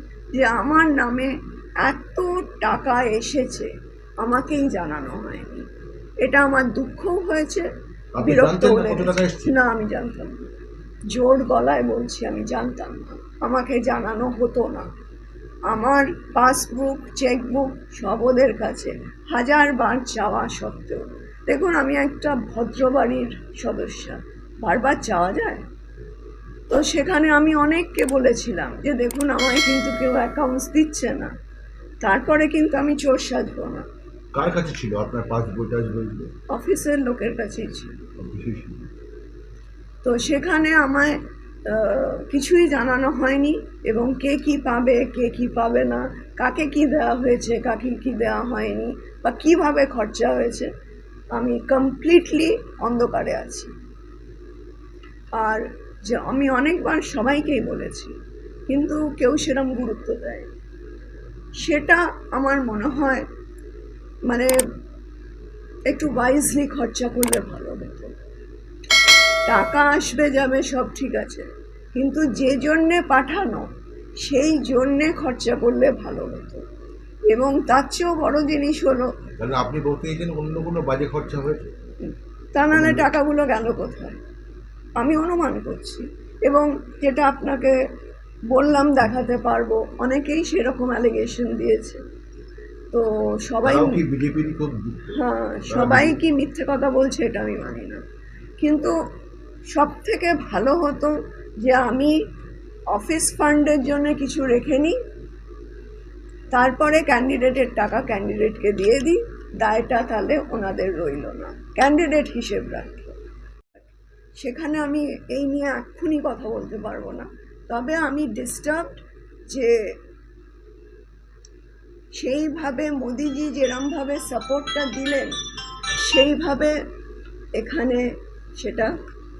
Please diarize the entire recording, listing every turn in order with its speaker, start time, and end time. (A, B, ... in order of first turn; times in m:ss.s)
0:00.4-0:01.3 A
0:01.8-0:03.7 A
0:04.2-0:05.6 A
0:06.2-0:07.7 A
0:08.2-0:09.5 B
0:08.2-0:10.5 A
0:11.1-0:14.9 A
0:15.7-0:25.6 A
0:26.7-0:31.3 A
0:32.0-0:33.8 A
0:34.3-0:36.3 B
0:36.5-0:38.0 A
0:38.2-0:38.8 B
0:40.0-0:41.2 A
0:41.7-0:50.7 A
0:51.3-0:53.7 A
0:55.4-0:58.1 A
0:58.7-1:00.5 A
1:01.6-1:03.2 A
1:05.9-1:08.1 A
1:09.5-1:13.7 A
1:14.2-1:16.6 A
1:17.3-1:19.1 A
1:19.4-1:21.7 B
1:22.5-1:24.2 A
1:22.7-1:23.1 B
1:25.0-1:27.7 A
1:28.5-1:32.0 A
1:32.9-1:34.0 A
1:33.6-1:35.2 B
1:35.2-1:38.0 A
1:35.7-1:36.2 B
1:38.6-1:38.9 A
1:39.7-1:42.1 A
1:42.9-1:44.9 A
1:46.5-1:53.2 A
1:54.4-1:59.7 A
2:02.1-2:05.3 A
2:06.0-2:06.8 A
2:07.6-2:08.0 A
2:08.6-2:08.9 A